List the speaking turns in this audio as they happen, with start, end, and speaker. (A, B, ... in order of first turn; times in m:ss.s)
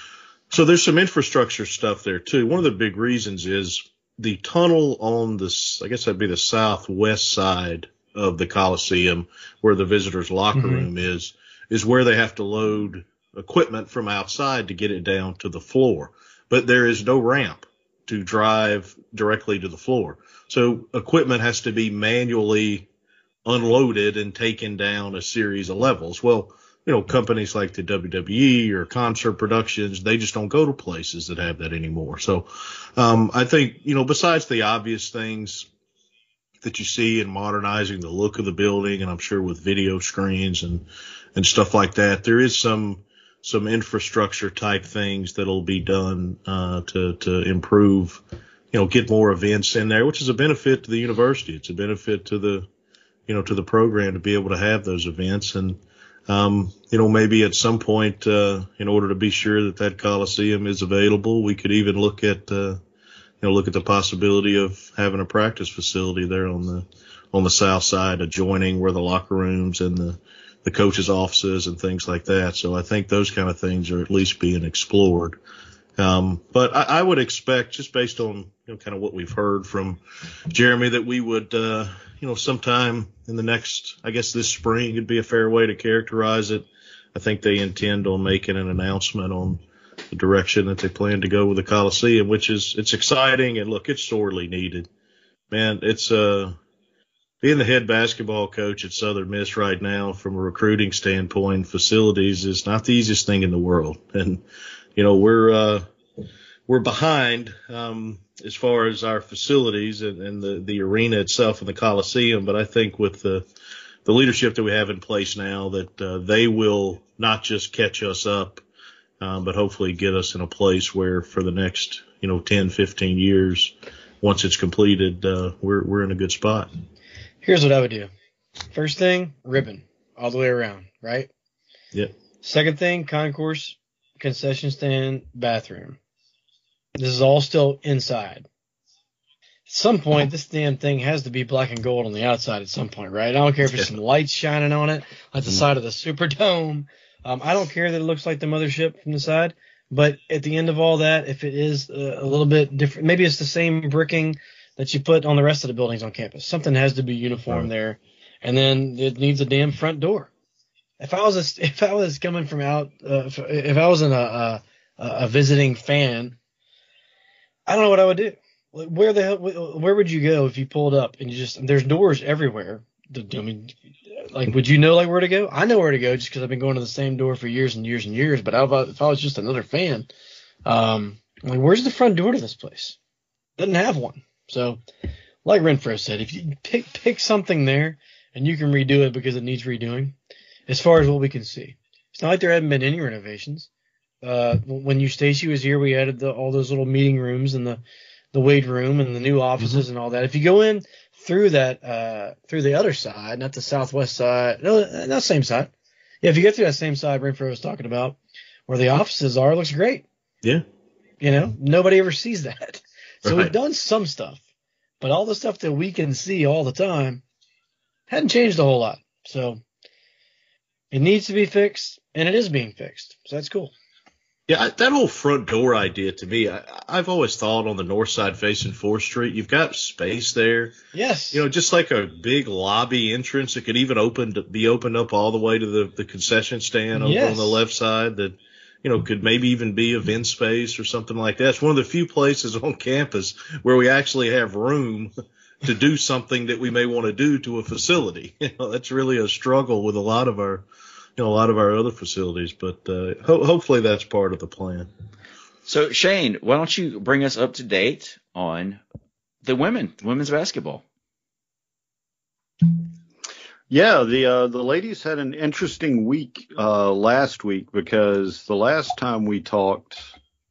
0:00.5-0:22.9 A
0:10.5-0:10.9 B
0:23.4-0:35.7 A
0:36.6-0:52.7 A
0:53.3-1:02.8 A
1:03.4-1:15.4 A
1:16.0-1:34.9 A
1:35.5-1:36.6 A
1:37.4-1:44.4 A
1:45.0-1:45.9 A
1:46.7-1:53.5 A
1:54.0-1:58.6 A
1:59.2-2:06.7 A
2:07.4-2:08.1 B
2:08.7-2:11.3 B
2:12.4-2:16.0 B
2:17.0-2:18.5 B
2:19.7-2:40.3 B
2:23.6-2:23.9 A
2:41.0-2:46.4 B
2:47.7-3:00.1 B
3:00.7-3:03.0 B
3:03.6-3:04.8 B
3:05.4-3:10.2 B
3:10.7-3:13.7 B
3:14.2-3:17.8 B
3:18.3-3:25.7 B
3:26.2-3:28.2 B
3:28.7-3:30.0 B
3:31.2-3:34.4 B
3:33.2-3:33.5 A
3:35.0-3:37.2 B
3:38.1-3:39.6 B
3:40.9-3:43.7 B
3:44.5-3:50.8 A
3:50.9-3:51.4 B
3:51.3-4:10.7 A
3:57.0-3:57.6 B
4:11.2-4:14.9 A
4:15.7-4:18.8 C
4:19.4-4:20.8 C
4:23.7-4:30.0 D